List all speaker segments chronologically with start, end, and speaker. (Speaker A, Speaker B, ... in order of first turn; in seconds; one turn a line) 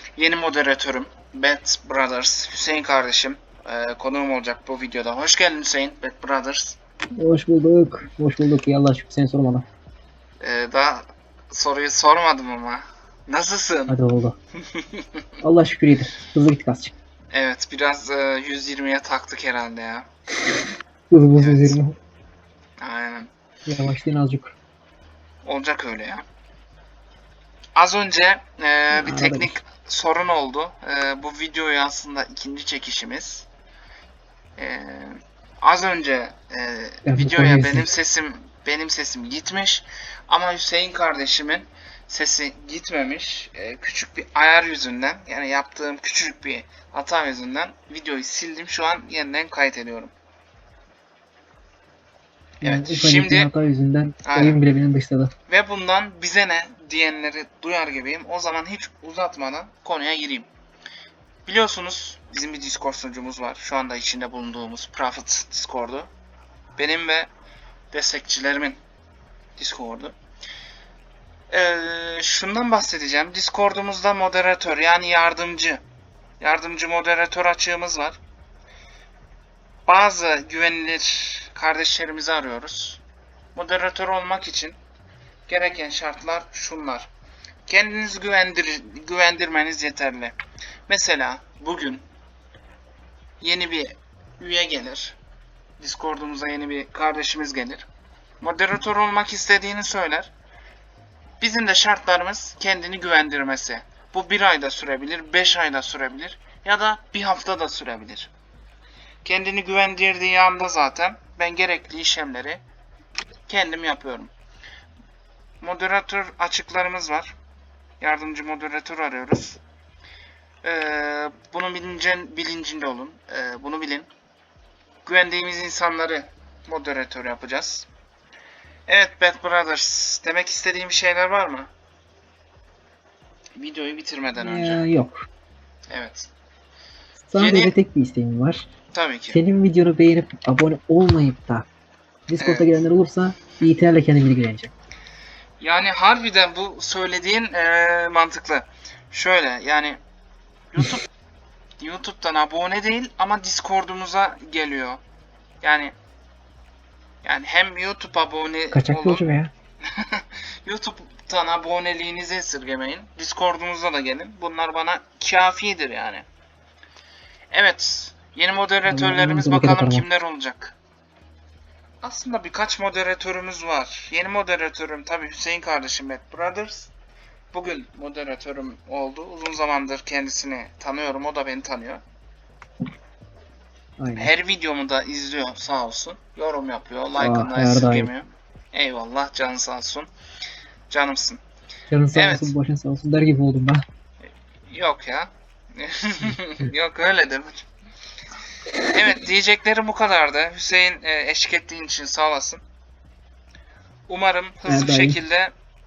Speaker A: 0.2-6.8
Speaker B: 7.2-9.7
Speaker A: 10.4-14.0
Speaker B: 13.9-14.3
Speaker A: 14.6-15.2
Speaker B: 15.4-16.9
Speaker A: 17.3-20.1
Speaker B: 21.1-21.9
Speaker A: 21.3-21.8
Speaker A: 22.8-23.3
Speaker B: 23.7-24.6
Speaker A: 25.4-26.2
Speaker A: 27.8-33.5
Speaker B: 28.9-29.5
Speaker A: 34.6-50.1
Speaker B: 37.0-37.9
Speaker B: 52.6-55.3
Speaker A: 52.6-53.5
Speaker A: 54.2-54.6
Speaker A: 55.5-60.5
Speaker A: 61.5-66.1
Speaker A: 66.8-67.3
Speaker A: 67.9-68.8
Speaker A: 69.6-70.1
Speaker A: 71.5-75.8
Speaker A: 76.4-78.2
Speaker A: 79.9-83.0
Speaker A: 83.5-84.8
Speaker A: 85.5-87.1
Speaker A: 87.7-90.3
Speaker A: 90.9-92.0
Speaker A: 93.4-95.2
Speaker A: 95.8-97.8
Speaker A: 98.4-100.3
Speaker A: 101.4-108.3
Speaker A: 109.2-112.6
Speaker A: 113.5-114.3
Speaker A: 115.6-117.3
Speaker A: 118.0-119.6
Speaker A: 120.6-124.1
Speaker A: 125.0-127.9
Speaker A: 128.9-131.7
Speaker A: 133.6-134.8
Speaker B: 134.4-135.2
Speaker A: 135.9-136.3
Speaker B: 137.3-138.7
Speaker A: 137.3-137.7
Speaker A: 138.9-139.4
Speaker B: 139.3-141.7
Speaker B: 142.3-144.7
Speaker A: 142.4-142.8
Speaker A: 145.6-150.0
Speaker A: 150.7-151.1
Speaker A: 151.8-155.0
Speaker A: 155.6-155.9
Speaker A: 157.2-159.2
Speaker B: 158.7-159.5
Speaker A: 159.9-166.2
Speaker A: 167.5-170.8
Speaker B: 168.9-170.1
Speaker A: 172.0-176.9
Speaker A: 177.5-182.0
Speaker B: 184.0-184.3
Speaker A: 184.2-190.1
Speaker B: 187.2-188.1
Speaker A: 190.9-191.4
Speaker B: 191.9-193.8
Speaker A: 192.1-192.5
Speaker A: 194.7-197.7
Speaker A: 198.9-202.6
Speaker A: 204.1-205.5
Speaker B: 204.7-205.2